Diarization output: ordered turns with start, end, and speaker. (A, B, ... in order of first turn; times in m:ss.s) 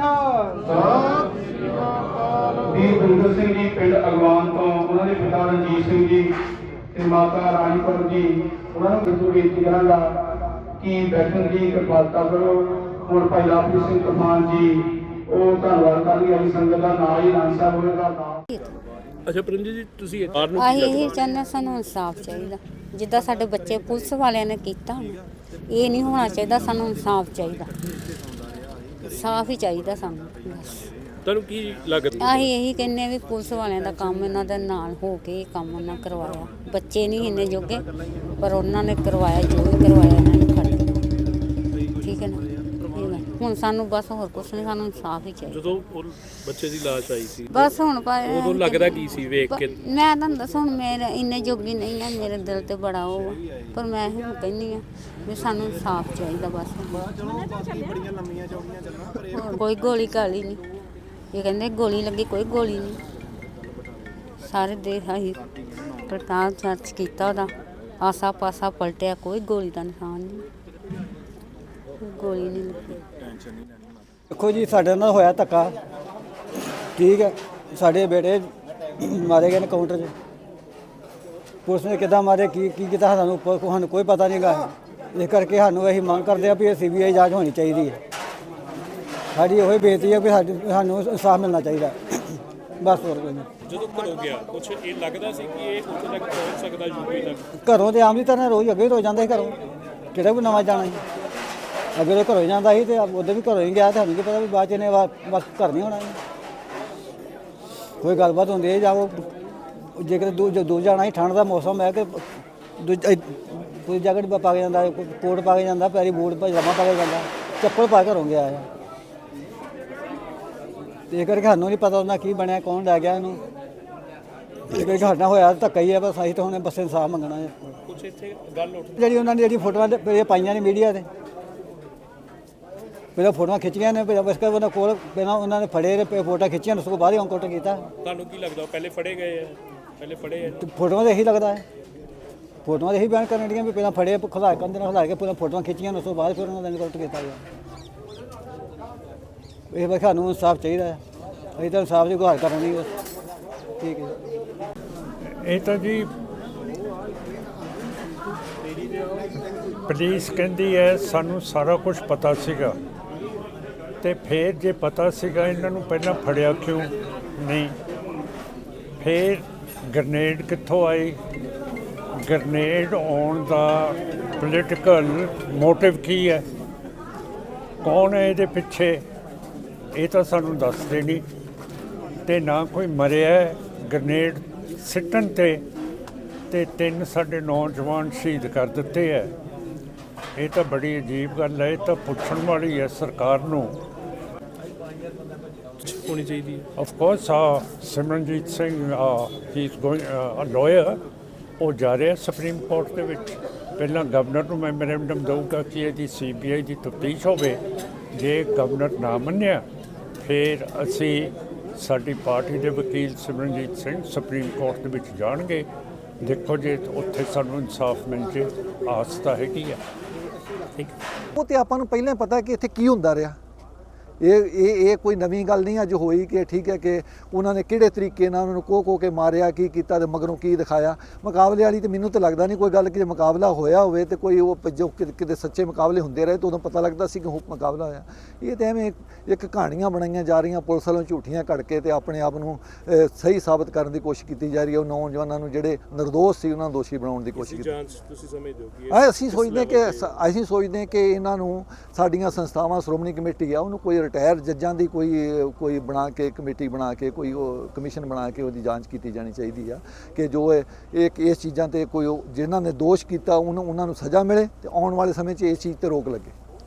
0:00.6-0:00.9 A
0:00.8-0:01.9 B
0:02.6-0:06.3 A
0:06.9-0:10.0 A
0:10.8-0:18.4 A
0:19.2-0:21.1 B
0:20.5-0:27.7 C
0:29.0-0:30.9 C
0:31.2-0:32.4 B
0:32.2-0:37.8 C
0:38.4-0:40.9 C
0:42.0-0:45.7 C
0:45.5-0:47.7 B
0:47.5-0:57.1 C
0:48.2-0:49.7 B
0:59.1-1:00.6 C
1:01.3-1:03.0 C
1:04.4-1:05.4 C
1:06.0-1:10.4 C
1:12.0-1:13.0 C
1:14.3-1:15.8 D
1:17.0-1:20.1 D
1:21.6-1:28.0 D
1:29.3-1:33.5 D
1:33.6-1:37.4 B
1:37.6-1:39.6 D
1:40.1-1:41.0 D
1:41.9-1:46.2 D
1:48.0-1:49.2 D
1:49.9-1:52.3 D
1:52.8-1:58.7 D
2:01.1-2:03.4 D
2:04.7-2:07.8 D
2:07.9-2:09.1 B
2:09.0-2:11.1 D
2:13.2-2:17.9 D
2:18.0-2:20.6 B
2:20.6-2:21.6 D
2:22.6-2:27.4 D
2:29.7-2:31.0 D
2:31.6-2:33.0 D
2:33.8-2:34.1 D
2:35.3-2:36.1 E
2:39.8-2:42.8 E
2:44.0-2:47.7 E
2:49.0-2:51.2 E
2:52.2-2:56.4 E
2:57.8-2:59.0 E
2:59.9-3:01.2 E
3:02.2-3:05.6 E
3:06.5-3:09.3 E
3:10.4-3:13.8 E
3:15.8-3:16.6 B
3:16.8-3:21.0 E
3:21.6-3:27.6 E
3:28.1-3:29.6 E
3:30.2-3:35.7 E
3:36.2-3:39.8 E
3:41.3-3:43.4 F
3:44.2-4:07.8 F
4:07.3-4:10.2 B
4:08.9-4:26.3 F